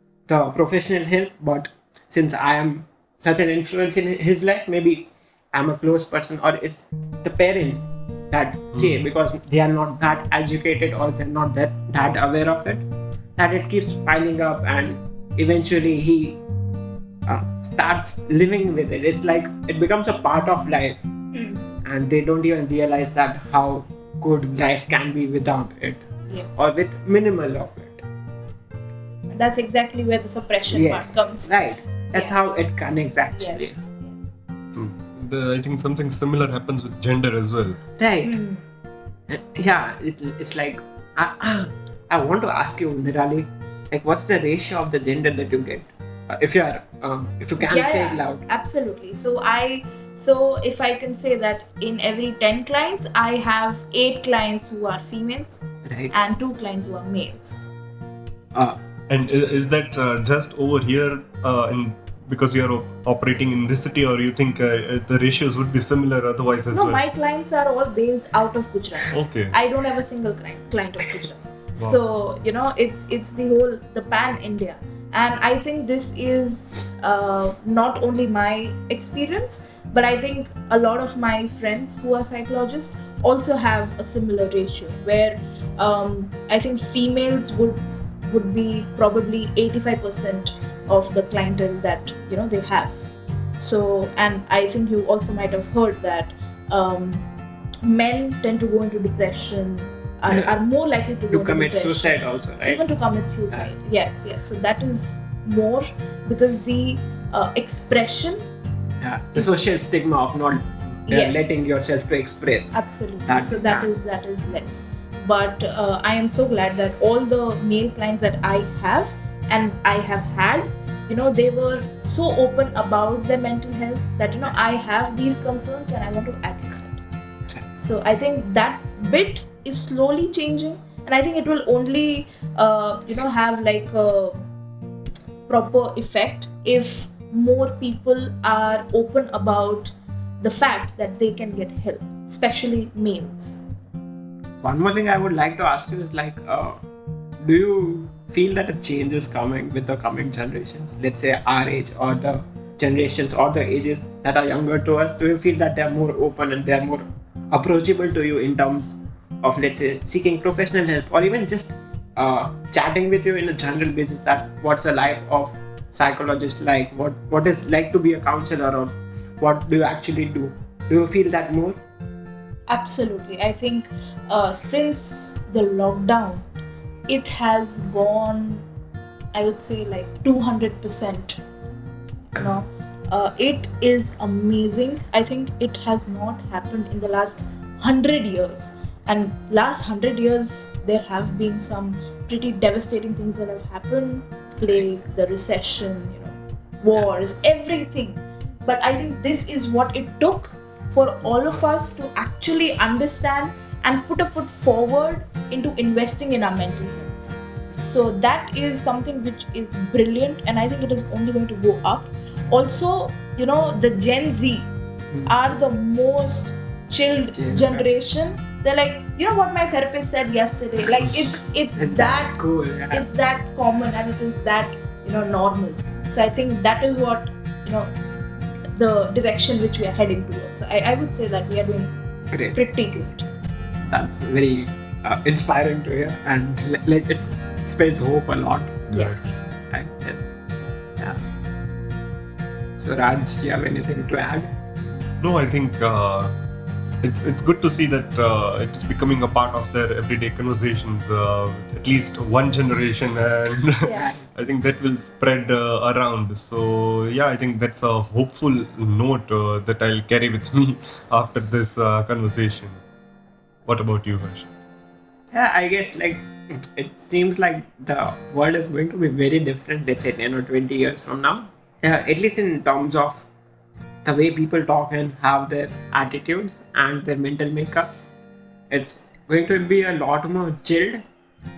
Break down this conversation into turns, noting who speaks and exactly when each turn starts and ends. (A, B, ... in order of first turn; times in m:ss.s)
0:00.3-0:12.8 A
0:13.4-0:16.4 A
0:17.3-0:21.0 A
0:21.3-0:21.7 B
0:21.8-0:26.0 A
0:26.3-0:26.6 B
0:26.6-0:28.0 A
0:29.3-0:31.5 B
0:30.7-0:33.7 A
0:33.3-0:34.2 B
0:34.7-0:37.8 C
0:38.0-0:38.4 A
0:38.2-0:38.6 B
0:39.3-0:48.4 A
0:47.6-0:57.6 B
0:55.8-0:56.1 A
0:59.1-1:07.0 C
1:06.7-1:33.0 B
1:09.1-1:09.5 C
1:33.6-1:37.2 B
1:37.8-1:48.4 B
1:40.3-1:40.6 A
1:41.3-1:42.8 A
1:49.0-1:52.7 A
1:49.3-1:49.8 B
1:51.1-1:51.6 B
1:52.7-2:07.0 B
1:53.2-1:53.9 A
2:07.7-2:14.4 B
2:15.5-2:23.6 B
2:24.6-2:26.8 A
2:27.4-2:51.8 A
2:52.7-2:56.4 B
2:57.1-2:58.6 B
2:59.3-3:01.4 B
3:02.4-3:34.7 B
3:35.2-3:42.4 B
3:37.3-3:37.8 A
3:41.8-3:43.1 A
3:42.9-3:47.9 B
3:48.8-3:51.9 B
3:52.3-3:52.6 A
3:52.5-3:53.2 B
3:53.9-3:59.0 A
3:58.9-3:59.2 C
3:59.7-4:00.2 A
4:02.8-4:04.5 A
4:05.2-4:06.3 C
4:07.0-4:22.8 C
4:13.8-4:14.1 B
4:13.9-4:14.2 A
4:23.6-4:24.5 C
4:25.3-4:33.2 A
4:34.0-4:38.1 A
4:38.7-4:41.0 A